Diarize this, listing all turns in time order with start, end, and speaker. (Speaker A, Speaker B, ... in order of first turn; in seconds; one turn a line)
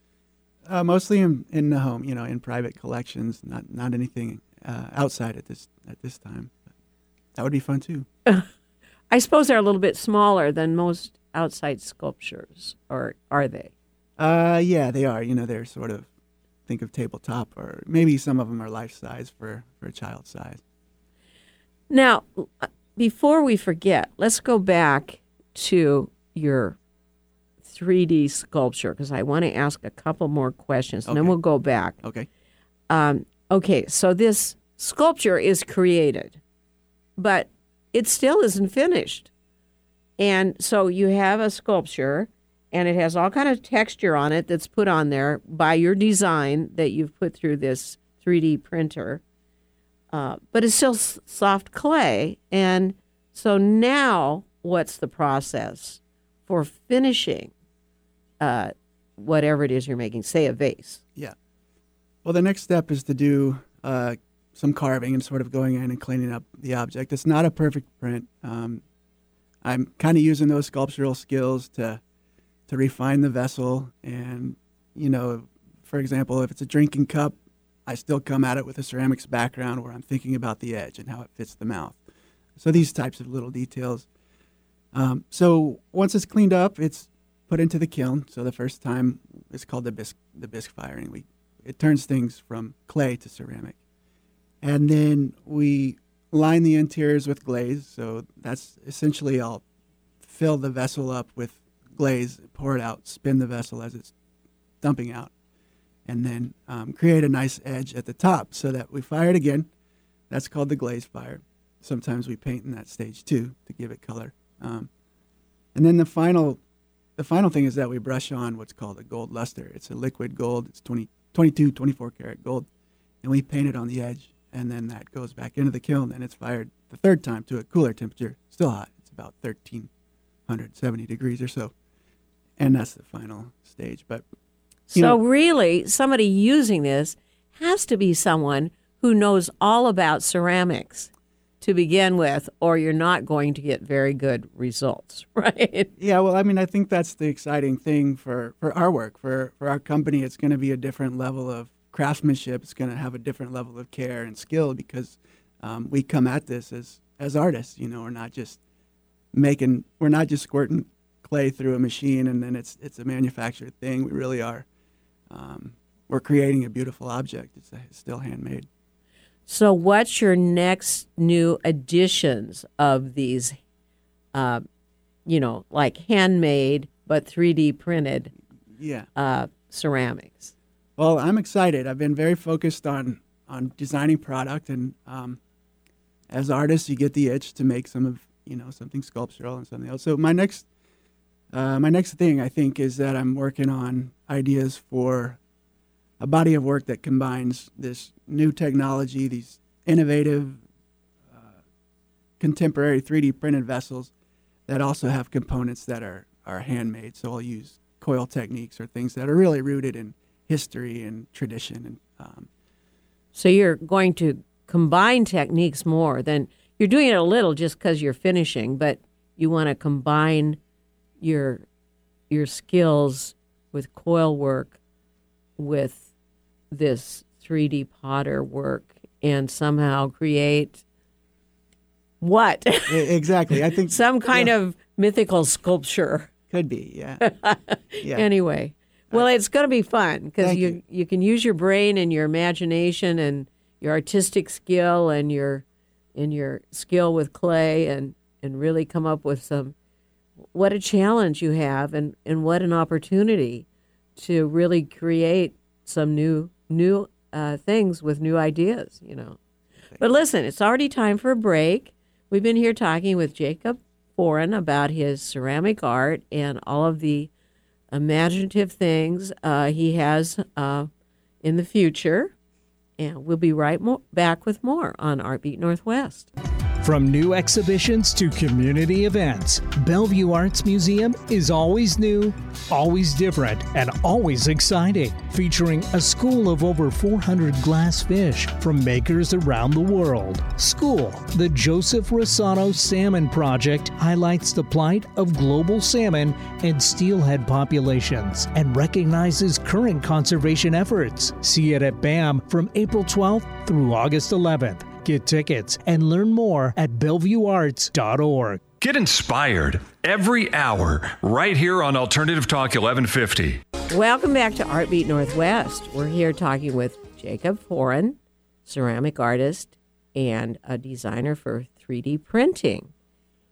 Speaker A: 0.7-6.6
Speaker A: 7.3-8.1
Speaker B: 9.1-13.7
Speaker A: 14.2-16.1
Speaker A: 16.7-20.6
Speaker B: 21.9-26.8
Speaker B: 27.6-32.0
Speaker A: 31.1-31.4
Speaker A: 32.0-32.3
Speaker B: 32.9-36.4
Speaker B: 37.2-39.3
Speaker B: 40.2-49.2
Speaker B: 50.1-57.5
Speaker B: 58.4-61.0
Speaker A: 62.2-68.8
Speaker A: 69.6-72.0
Speaker A: 72.7-82.0
Speaker A: 82.6-84.1
Speaker A: 84.9-93.8
Speaker A: 94.6-99.6
Speaker A: 100.2-104.1
Speaker A: 104.8-105.3
Speaker A: 106.1-109.7
Speaker A: 110.3-114.9
Speaker A: 115.8-116.6
Speaker A: 117.2-122.7
Speaker A: 123.2-129.9
Speaker A: 130.5-131.7
Speaker A: 132.6-134.2
Speaker B: 134.9-141.1
Speaker A: 134.9-135.2
Speaker B: 141.6-145.9
Speaker A: 146.0-158.6
Speaker A: 159.3-164.7
Speaker A: 165.3-168.7
Speaker B: 169.5-173.6
Speaker B: 174.3-174.7
Speaker B: 175.3-178.3
Speaker A: 178.8-179.1
Speaker B: 179.2-180.5
Speaker A: 181.0-185.4
Speaker A: 186.3-190.7
Speaker A: 191.5-195.4
Speaker A: 196.2-200.6
Speaker A: 201.3-201.6
Speaker A: 202.4-204.1
Speaker A: 204.7-212.5
Speaker B: 213.3-220.6
Speaker B: 221.2-221.7
Speaker B: 222.3-224.8
Speaker B: 225.6-226.1
Speaker B: 226.7-230.8
Speaker B: 232.2-233.1
Speaker A: 232.9-234.5
Speaker B: 233.8-236.3
Speaker A: 236.5-237.2
Speaker B: 237.2-245.6
Speaker A: 238.0-238.3
Speaker A: 240.4-240.8
Speaker B: 246.2-249.8
Speaker B: 250.5-259.4
Speaker B: 260.0-267.3
Speaker B: 267.9-270.9
Speaker B: 271.4-272.3
Speaker B: 273.0-276.3
Speaker C: 276.8-308.7
Speaker D: 308.8-313.6
Speaker B: 313.9-322.9